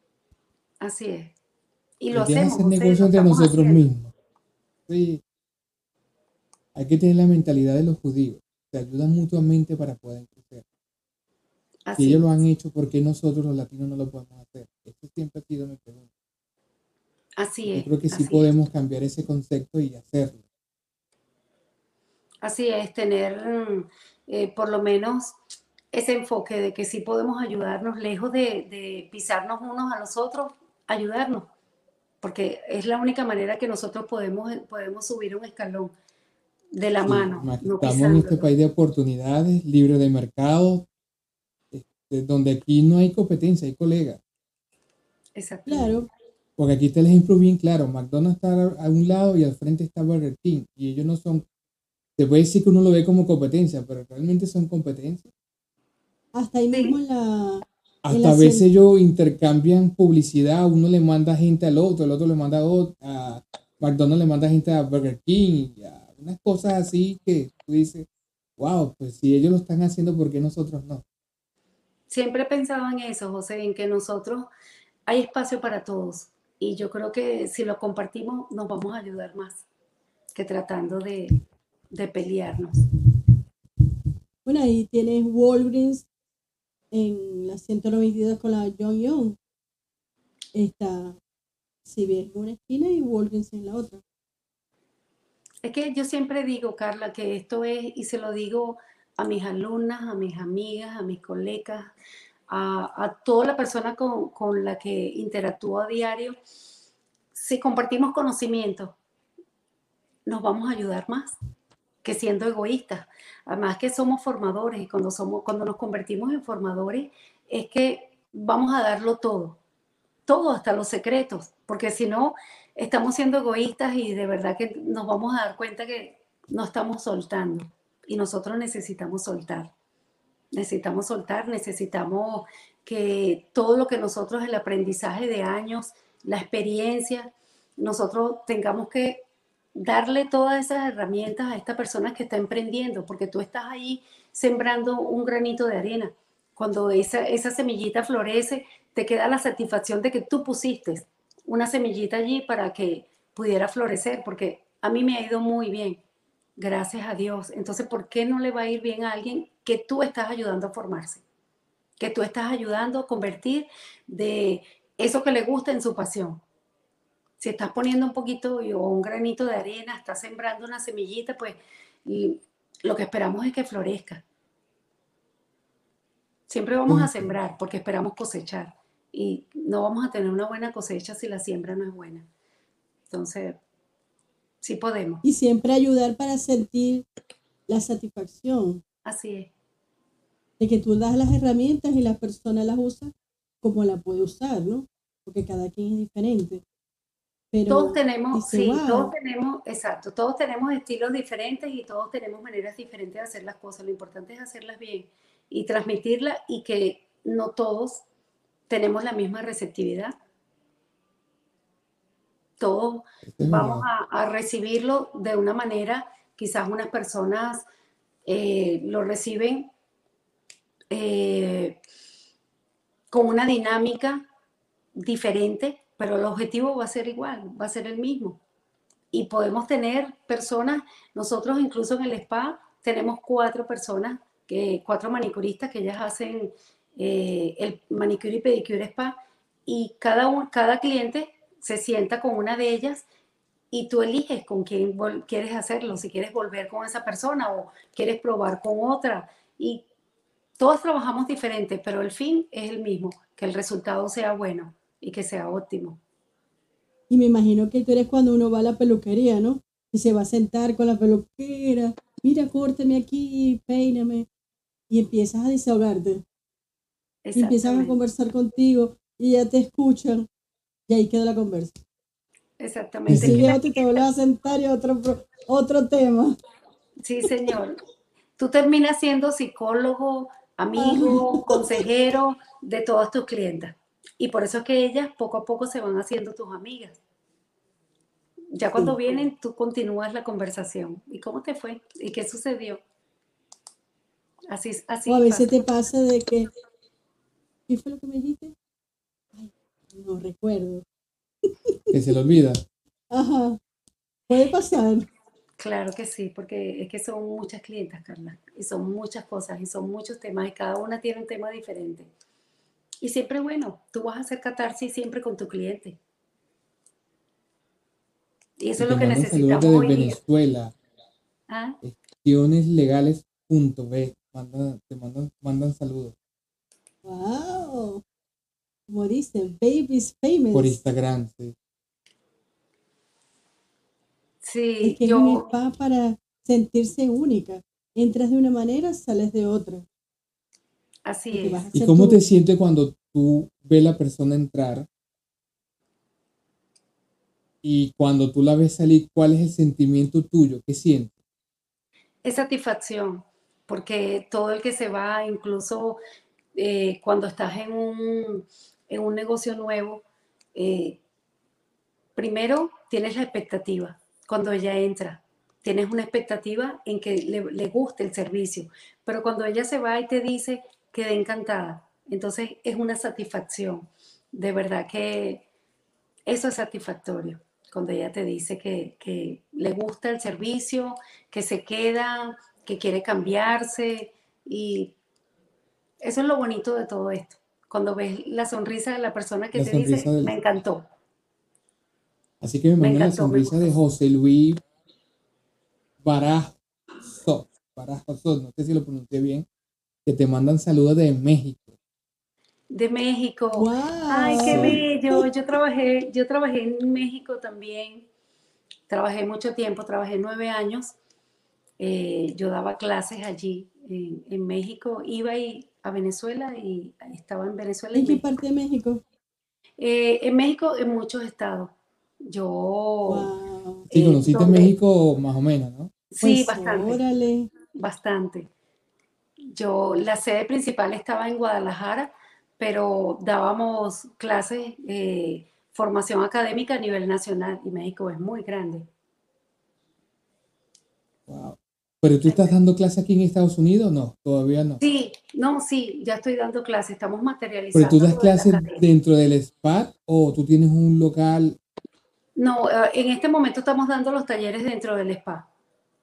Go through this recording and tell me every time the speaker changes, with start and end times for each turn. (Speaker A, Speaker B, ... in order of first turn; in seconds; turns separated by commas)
Speaker A: 0.8-1.3, Speaker A: 2.0-3.8, Speaker B: 2.1-4.1, Speaker B: 4.9-5.2, Speaker B: 6.7-10.6, Speaker A: 11.9-12.3, Speaker B: 12.0-16.1, Speaker A: 17.4-18.5, Speaker B: 17.7-20.4, Speaker A: 22.4-25.4, Speaker A: 25.9-31.5, Speaker A: 32.2-35.9, Speaker A: 36.7-38.5, Speaker B: 37.0-40.9, Speaker B: 41.7-44.2, Speaker A: 45.4-46.0, Speaker C: 45.7-46.1, Speaker B: 46.6-51.4, Speaker B: 52.2-55.3, Speaker C: 56.3-58.7, Speaker B: 58.0-71.0, Speaker A: 72.1-74.5, Speaker A: 75.1-79.7, Speaker A: 80.3-81.4, Speaker A: 81.9-82.8, Speaker C: 84.4-86.1, Speaker C: 86.9-89.4, Speaker C: 90.5-91.2, Speaker C: 91.8-94.0, Speaker A: 95.6-101.9, Speaker A: 102.5-106.3, Speaker A: 107.3-109.0, Speaker A: 110.2-111.4, Speaker A: 112.0-119.6, Speaker A: 120.3-129.7, Speaker A: 130.5-139.2, Speaker A: 139.7-156.0, Speaker A: 156.6-161.2, Speaker A: 162.0-166.4, Speaker A: 167.4-174.2, Speaker A: 176.5-182.2, Speaker B: 176.9-177.3, Speaker A: 183.1-183.6, Speaker A: 184.6-185.2, Speaker C: 185.2-187.1, Speaker C: 187.7-188.8, Speaker A: 189.0-189.5, Speaker C: 190.6-196.6, Speaker C: 197.5-199.1, Speaker A: 197.7-208.0, Speaker A: 208.7-210.1, Speaker A: 212.6-217.6, Speaker B: 213.3-213.8, Speaker A: 218.2-219.7, Speaker A: 220.9-221.8, Speaker A: 223.1-224.2, Speaker A: 224.9-228.4, Speaker A: 229.1-243.0, Speaker A: 243.7-249.8, Speaker A: 250.6-256.0, Speaker C: 257.1-264.3, Speaker C: 264.9-266.2, Speaker A: 267.2-268.0, Speaker C: 267.3-270.3, Speaker C: 270.9-271.8, Speaker A: 272.6-274.0, Speaker B: 273.1-273.5, Speaker C: 273.1-276.4, Speaker A: 277.0-277.8, Speaker A: 278.4-287.0, Speaker C: 280.8-281.8, Speaker A: 288.5-292.8, Speaker A: 294.5-295.5, Speaker C: 295.1-296.5, Speaker C: 297.7-298.6, Speaker C: 299.3-300.8, Speaker B: 301.9-302.6, Speaker C: 303.1-303.6, Speaker C: 304.3-305.1, Speaker A: 305.6-312.1, Speaker A: 313.0-316.0, Speaker A: 318.6-320.2, Speaker B: 318.8-320.7, Speaker A: 321.5-321.8, Speaker B: 321.8-326.1, Speaker C: 327.0-328.0, Speaker C: 328.9-330.8, Speaker B: 330.5-331.6, Speaker A: 334.4-335.5, Speaker C: 334.8-339.9, Speaker A: 341.1-341.6, Speaker C: 341.3-342.2, Speaker B: 341.7-344.9, Speaker B: 347.6-351.1, Speaker A: 352.2-356.0, Speaker A: 356.5-360.0, Speaker A: 360.5-361.0, Speaker A: 362.1-375.4, Speaker A: 376.2-384.9, Speaker A: 386.0-390.8, Speaker B: 389.5-390.3, Speaker B: 392.4-394.6, Speaker A: 392.8-393.7, Speaker B: 396.0-399.5, Speaker B: 400.1-401.7, Speaker A: 402.7-408.1, Speaker C: 403.5-405.2, Speaker B: 404.4-404.8, Speaker A: 408.9-410.9, Speaker A: 411.8-418.2, Speaker C: 417.9-419.0, Speaker A: 419.8-423.3, Speaker C: 423.1-423.9, Speaker B: 423.9-425.9, Speaker A: 423.9-424.7, Speaker A: 426.1-427.0, Speaker C: 426.2-427.5, Speaker A: 427.7-428.5, Speaker A: 429.5-438.9, Speaker B: 441.3-444.8, Speaker A: 442.3-442.6, Speaker A: 444.8-448.8, Speaker B: 447.7-451.6, Speaker A: 452.4-455.5